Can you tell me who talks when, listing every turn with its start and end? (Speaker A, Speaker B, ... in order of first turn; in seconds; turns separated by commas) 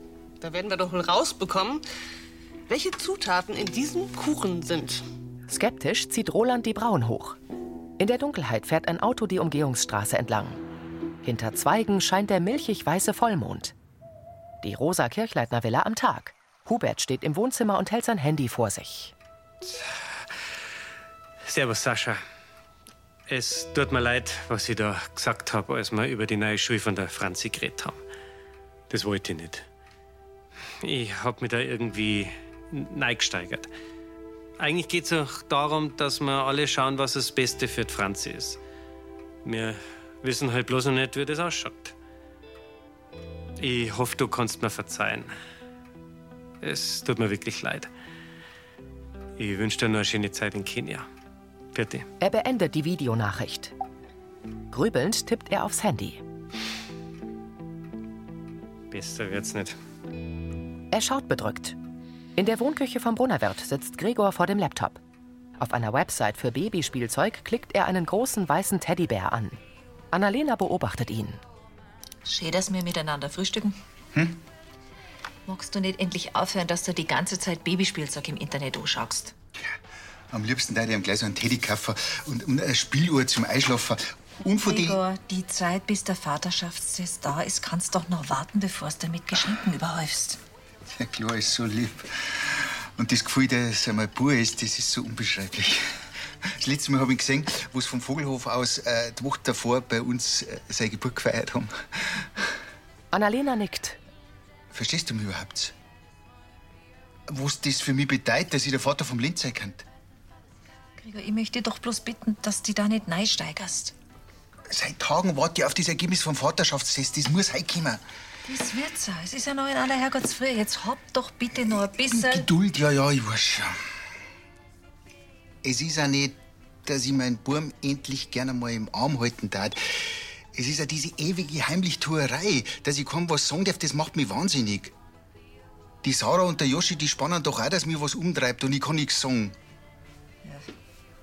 Speaker A: 0.4-1.8, Speaker A: 2.7-5.0, Speaker B: 5.5-7.4, Speaker B: 8.0-10.6, Speaker B: 11.2-13.7, Speaker B: 14.6-19.1, Speaker C: 21.4-22.2, Speaker C: 23.3-28.0, Speaker C: 28.9-29.7, Speaker C: 30.8-33.7, Speaker C: 34.6-38.6, Speaker C: 39.4-41.9, Speaker C: 43.6-45.3, Speaker C: 46.6-47.9, Speaker C: 49.4-51.1, Speaker C: 51.7-52.0, Speaker B: 52.2-53.7, Speaker B: 54.7-56.2, Speaker C: 58.9-59.8, Speaker B: 60.9-61.8, Speaker B: 62.4-65.0, Speaker B: 65.6-69.6, Speaker B: 70.1-71.4, Speaker D: 72.2-73.8, Speaker E: 74.1-74.4, Speaker D: 75.5-79.3, Speaker E: 80.3-85.0, Speaker D: 84.5-90.4, Speaker E: 90.9-95.8, Speaker E: 96.4-102.5, Speaker B: 103.1-104.0, Speaker E: 104.7-105.7, Speaker E: 107.3-109.8, Speaker D: 111.0-113.9, Speaker E: 114.7-118.0, Speaker D: 118.5-122.5, Speaker E: 121.7-123.8, Speaker E: 125.6-134.9, Speaker E: 136.0-139.5